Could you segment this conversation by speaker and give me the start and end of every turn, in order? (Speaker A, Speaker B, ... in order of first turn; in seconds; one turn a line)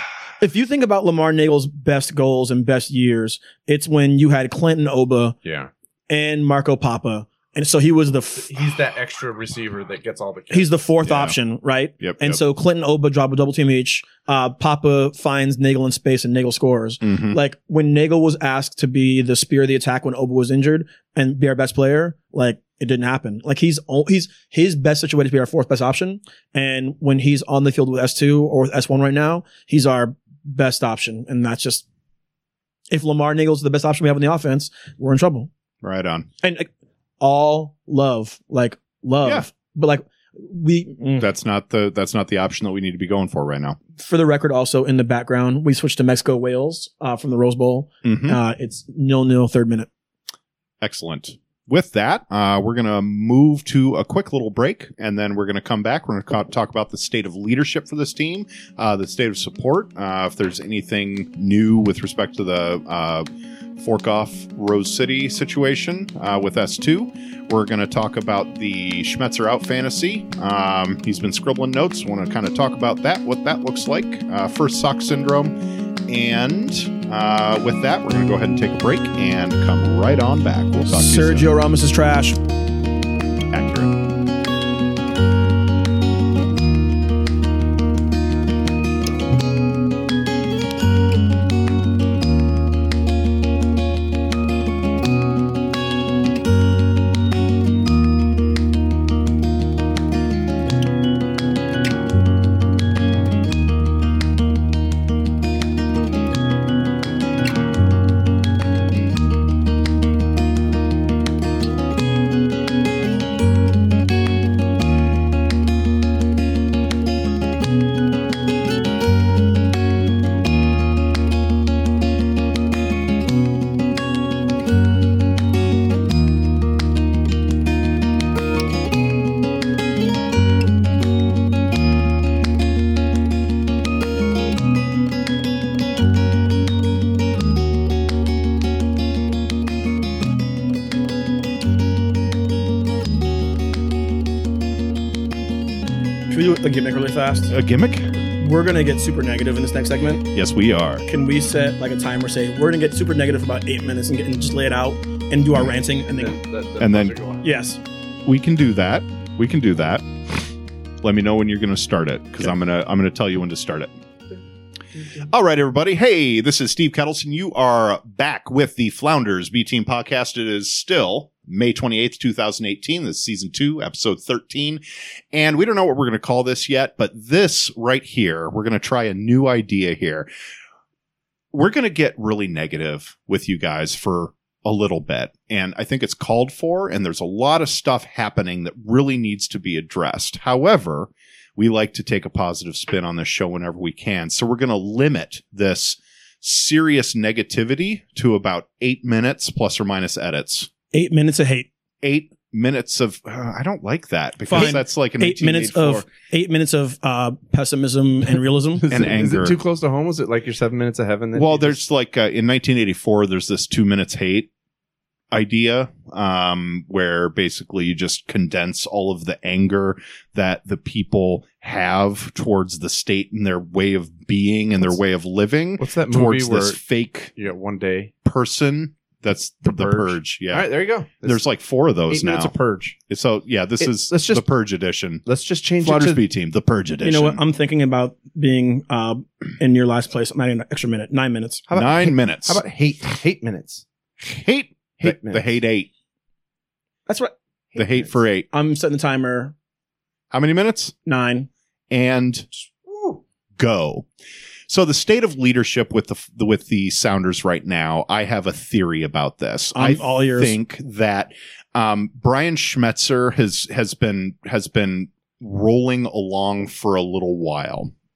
Speaker A: 0.4-5.4
Speaker B: 5.5-5.7
Speaker A: 6.1-8.5
Speaker B: 8.4-10.8
Speaker A: 10.5-31.8
Speaker C: 11.0-11.3
Speaker C: 12.0-12.4
Speaker C: 17.0-17.4
Speaker A: 32.9-35.5
Speaker C: 35.8-36.3
Speaker A: 36.4-36.7
Speaker A: 37.2-41.3
Speaker C: 41.2-43.8
Speaker A: 44.0-49.9
Speaker C: 48.0-48.4
Speaker C: 50.8-75.6
Speaker C: 76.1-81.5
Speaker A: 80.9-82.4
Speaker C: 83.5-83.9
Speaker A: 146.3-147.5
Speaker C: 147.5-148.1
Speaker A: 148.4-150.3
Speaker C: 150.3-151.1
Speaker A: 151.1-156.4
Speaker B: 156.1-157.4
Speaker C: 156.8-157.2
Speaker A: 157.4-157.8
Speaker C: 158.3-160.1
Speaker C: 161.0-164.0
Speaker C: 165.2-174.8
Speaker C: 175.3-180.3
Speaker C: 181.5-200.7
Speaker A: 200.9-201.7
Speaker C: 202.0-206.1
Speaker A: 204.5-208.9
Speaker B: 208.8-211.8
Speaker C: 208.9-209.6
Speaker C: 211.3-214.5
Speaker C: 215.3-227.3
Speaker B: 225.8-226.8
Speaker B: 227.4-228.1
Speaker C: 228.2-230.7
Speaker B: 229.7-231.4
Speaker C: 231.2-232.5
Speaker B: 232.1-233.0
Speaker C: 233.1-235.2
Speaker B: 233.8-234.4
Speaker B: 235.2-236.2
Speaker C: 235.8-237.4
Speaker A: 237.0-241.7
Speaker B: 241.7-243.8
Speaker C: 241.7-242.6
Speaker C: 244.2-245.9
Speaker B: 245.0-245.5
Speaker A: 247.1-247.3
Speaker C: 247.8-248.5
Speaker A: 248.5-249.5
Speaker C: 250.3-250.9
Speaker A: 251.1-251.5
Speaker C: 251.9-252.5
Speaker B: 252.9-253.2
Speaker C: 253.6-254.1
Speaker C: 254.7-267.9
Speaker A: 259.8-260.6